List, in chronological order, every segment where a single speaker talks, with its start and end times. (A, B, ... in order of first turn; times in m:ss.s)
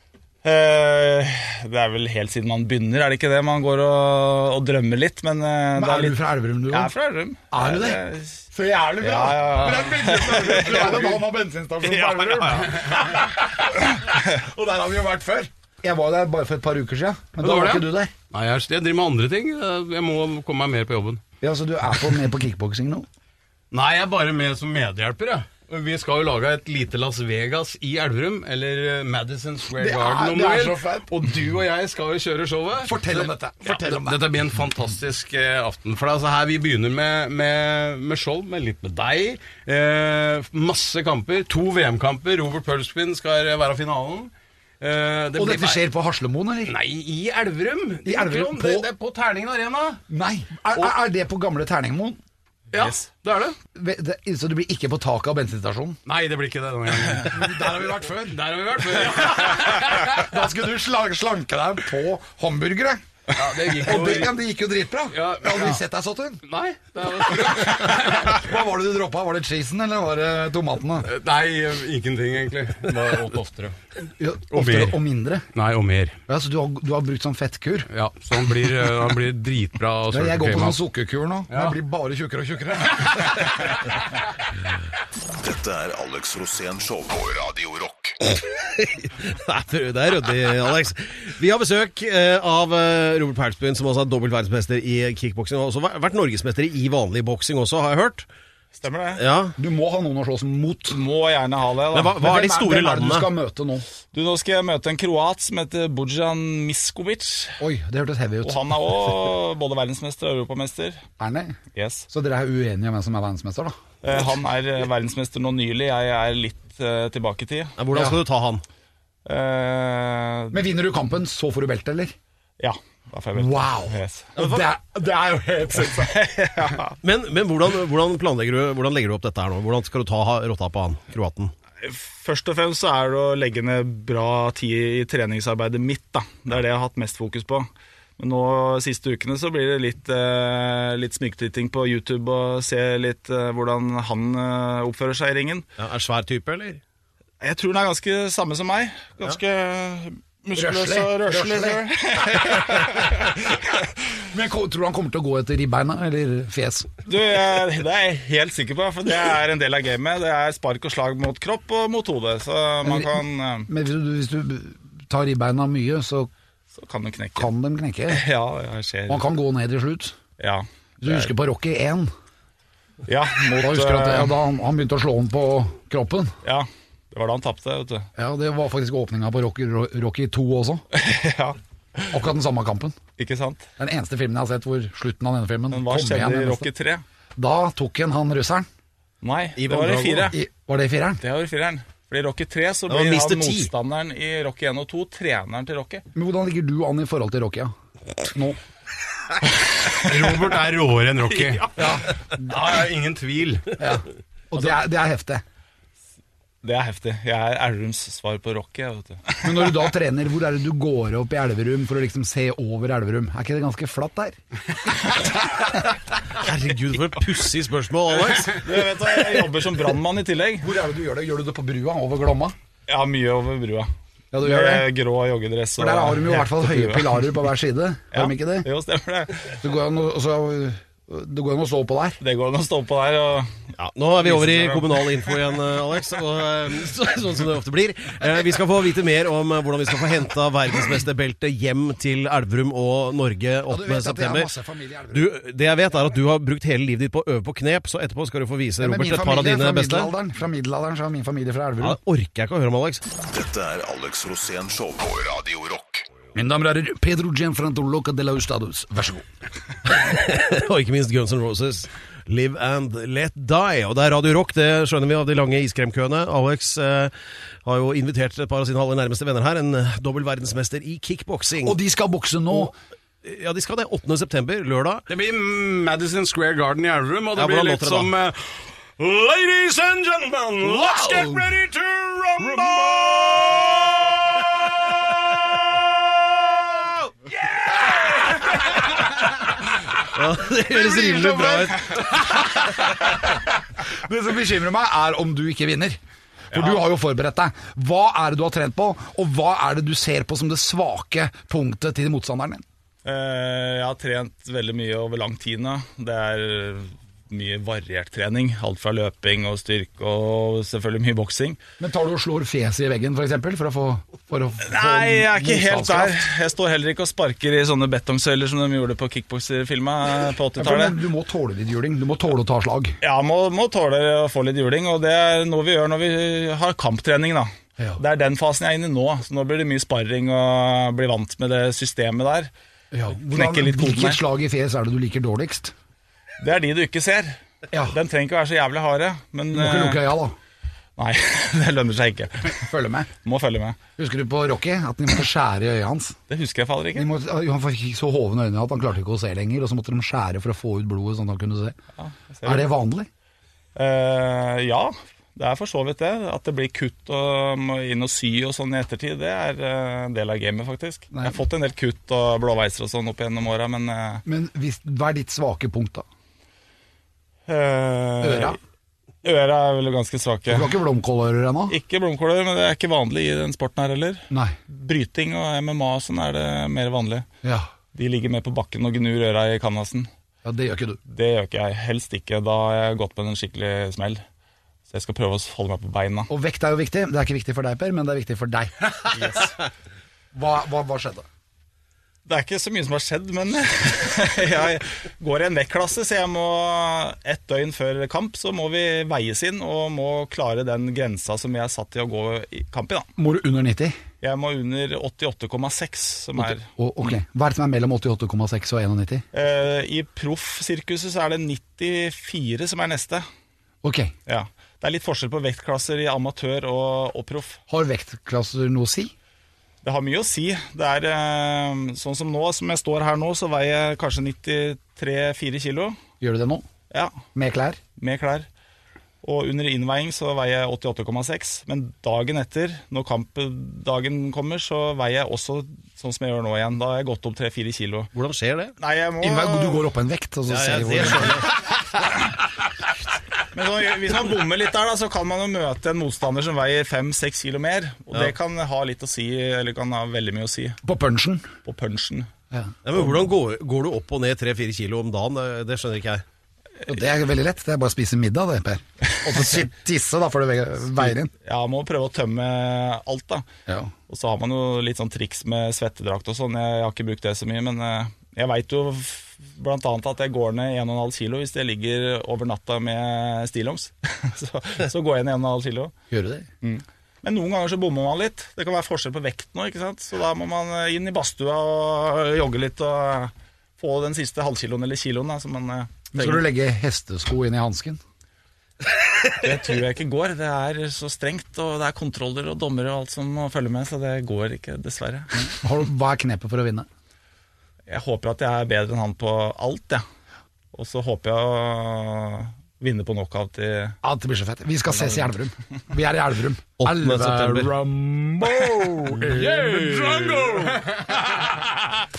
0:00.4-0:08.4 A
0:05.8-0:06.9 B
0:07.5-0:18.1 B
0:09.0-0:11.3 A
0:11.8-0:13.0 A
0:17.4-0:21.2 C
0:21.4-0:23.1 B
0:23.7-0:45.8 C
0:29.8-0:31.1 B
0:32.8-0:34.2 B
0:45.4-0:46.7 B
0:46.7-0:50.0 C
0:48.0-0:48.9 B
0:50.1-0:52.2 B
0:52.7-0:53.6 C
0:53.7-0:56.0 B
0:56.1-1:00.3 C
0:57.3-1:03.0 B
1:03.3-1:04.4 C
1:03.6-1:06.4 B
1:05.1-1:05.8 C
1:06.5-1:08.4 C
1:07.4-1:11.1 B
1:11.0-1:13.8 C
1:14.2-1:15.5 B
1:14.5-1:15.0 C
1:15.5-1:16.2 C
1:16.3-1:17.9 B
1:17.9-1:20.8 C
1:20.1-1:23.8 B
1:21.5-1:21.8 C
1:25.4-1:28.3 D
1:28.5-1:38.3 E
1:38.8-1:39.2 A
1:39.2-1:39.6 E
1:39.6-1:41.0 B
1:40.9-1:42.2 A
1:41.9-1:43.3 E
1:42.2-1:43.9 B
1:44.1-1:47.6 A
1:47.6-1:48.8 B
1:48.4-1:51.0 A
1:51.2-1:51.6 B
1:51.7-1:52.1 A
1:52.1-1:53.8 B
1:54.0-1:57.8 A
1:57.8-1:58.6 E
1:57.9-1:58.2 B
1:59.3-2:00.6 A
2:00.5-2:02.2 B
2:02.6-2:04.5 A
2:03.4-2:06.2 B
2:05.9-2:07.0 A
2:07.0-2:11.5 E
2:11.8-2:25.7 A
2:25.8-2:26.8 E
2:27.4-2:33.6 A
2:30.6-2:33.3 B
2:34.3-2:37.0 B
2:37.1-2:43.7 A
2:42.8-2:46.3 B
2:46.7-2:47.5 A
2:47.4-2:48.2 B
2:48.1-2:49.2 A
2:49.1-2:50.2 B
2:50.4-2:51.3 A
2:51.0-2:52.1 B
2:53.1-2:54.4 A
2:53.6-2:56.4 B
2:56.4-2:58.1 A
2:58.2-3:00.8 B
3:00.9-3:01.6 A
3:02.1-3:03.0 B
3:03.2-3:03.6 A
3:03.8-3:06.6 B
3:05.7-3:07.0 A
3:07.4-3:08.7 B
3:09.2-3:10.4 A
3:09.6-3:10.4 E
3:10.3-3:11.2 B
3:11.2-3:16.0 A
3:12.9-3:13.7 E
3:16.1-3:17.7 B
3:18.3-3:18.6 B
3:20.0-3:23.8 C
3:21.8-3:22.1 B
3:23.8-3:25.4 B
3:26.6-3:29.9 A
3:29.4-3:34.4 B
3:36.3-3:38.7 E
3:38.6-3:40.7 A
3:40.6-3:42.6 B
3:42.9-3:43.9 A
3:44.3-3:44.9 B
3:44.4-3:47.4 A
3:45.8-3:48.7 B
3:48.1-3:49.6 A
3:49.6-3:52.2 B
3:52.2-3:53.5 A
3:53.8-4:04.5 E
3:54.2-3:55.4 A
4:03.7-4:05.3 B
4:05.1-4:10.1 E
4:08.8-4:12.0 B
4:11.8-4:13.0 E
4:13.2-4:16.0 D
4:16.4-4:19.3 B
4:19.8-4:31.8 E
4:31.6-4:32.7 B
4:33.2-4:35.1 E
4:35.1-4:44.4 C
4:37.3-4:38.1 E
4:40.6-4:41.5 B
4:45.7-4:46.5 C
4:47.8-4:48.6 B
4:50.0-4:52.0 E
4:50.7-4:56.0 B
4:56.5-4:56.8 A
4:56.5-5:02.6 B
5:03.0-5:11.6 A
5:11.8-5:16.2 B
5:14.6-5:21.0 A
5:20.6-5:23.0 B
5:23.0-5:32.5 A
5:32.9-5:35.7 B
5:33.2-5:34.2 A
5:36.4-5:40.0 A
5:37.7-5:38.0 B
5:39.5-5:40.4 B
5:41.0-5:42.6 A
5:42.6-5:43.1 B
5:43.2-5:43.8 A
5:44.0-5:46.2 B
5:46.3-5:47.1 A
5:47.0-5:51.8 B
5:52.0-5:52.7 A
5:52.4-5:53.1 B
5:53.8-6:04.2 A
6:01.1-6:01.4 B
6:04.3-6:06.0 B
6:07.5-6:08.6 A
6:08.2-6:08.6 B
6:09.2-6:10.7 A
6:10.5-6:11.8 B
6:11.7-6:17.3 A
6:14.3-6:14.6 B
6:18.0-6:20.1 A
6:20.4-6:21.0 B
6:21.1-6:24.2 A
6:24.9-6:26.3 A
6:26.3-6:29.4 B
6:29.1-6:29.5 A
6:30.3-6:31.2 B
6:32.3-6:43.1 A
6:43.2-6:44.0 B
6:44.2-6:46.7 A
6:46.4-6:49.2 B
6:49.3-6:53.2 A
6:53.8-6:54.1 B
6:54.3-6:57.6 A
6:57.7-6:59.1 B
6:59.8-7:06.0 A
7:06.2-7:06.7 B
7:06.9-7:07.2 A
7:07.4-7:07.8 B
7:08.0-7:08.5 A
7:09.2-7:18.1 A
7:18.1-7:18.7 E
7:18.8-7:19.9 A
7:19.2-7:21.5 B
7:20.5-7:21.5 E
7:23.5-7:30.8 A
7:30.8-7:31.5 B
7:31.6-7:32.3 A
7:32.5-7:33.3 B
7:32.8-7:36.2 E
7:36.9-7:41.3 B
7:41.4-7:43.5 A
7:44.1-7:55.9 A
7:56.1-7:56.5 B
7:56.6-8:06.4 A
8:06.1-8:08.0 B
8:09.4-8:15.4 A
8:15.4-8:16.9 B
8:17.9-8:20.0 A
8:20.7-8:24.0 A
8:24.0-8:30.1 B
8:26.8-8:27.7 E
8:29.2-8:31.6 C
8:30.0-8:30.5 E